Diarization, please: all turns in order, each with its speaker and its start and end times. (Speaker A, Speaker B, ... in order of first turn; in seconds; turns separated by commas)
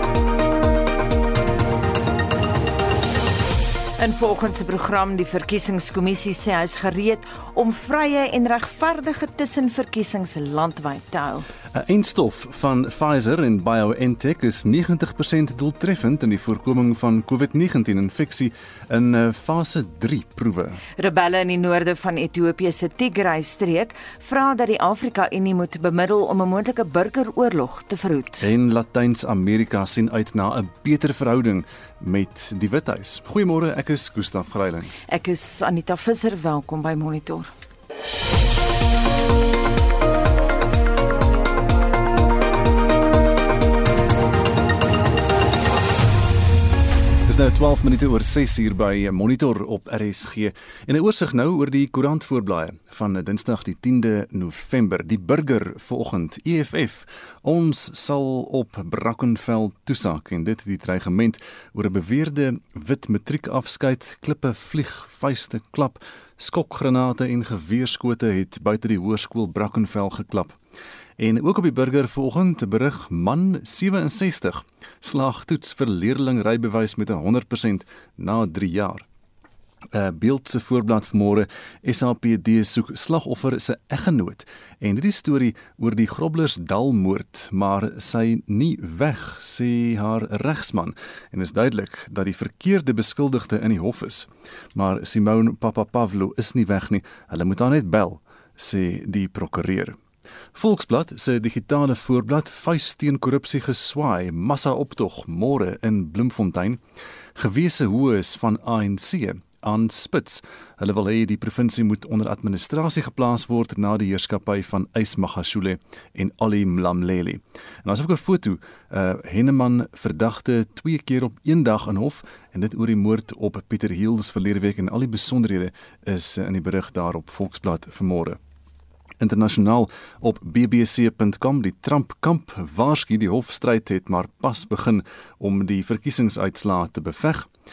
Speaker A: 4.0-11.5, Speaker B: 11.7-20.8, Speaker A: 21.0-28.5, Speaker B: 28.4-34.9, Speaker A: 35.1-37.5, Speaker B: 47.3-70.6, Speaker B: 71.2-79.0, Speaker B: 79.9-100.0, Speaker B: 100.5-106.8, Speaker B: 107.4-128.4, Speaker B: 129.2-137.5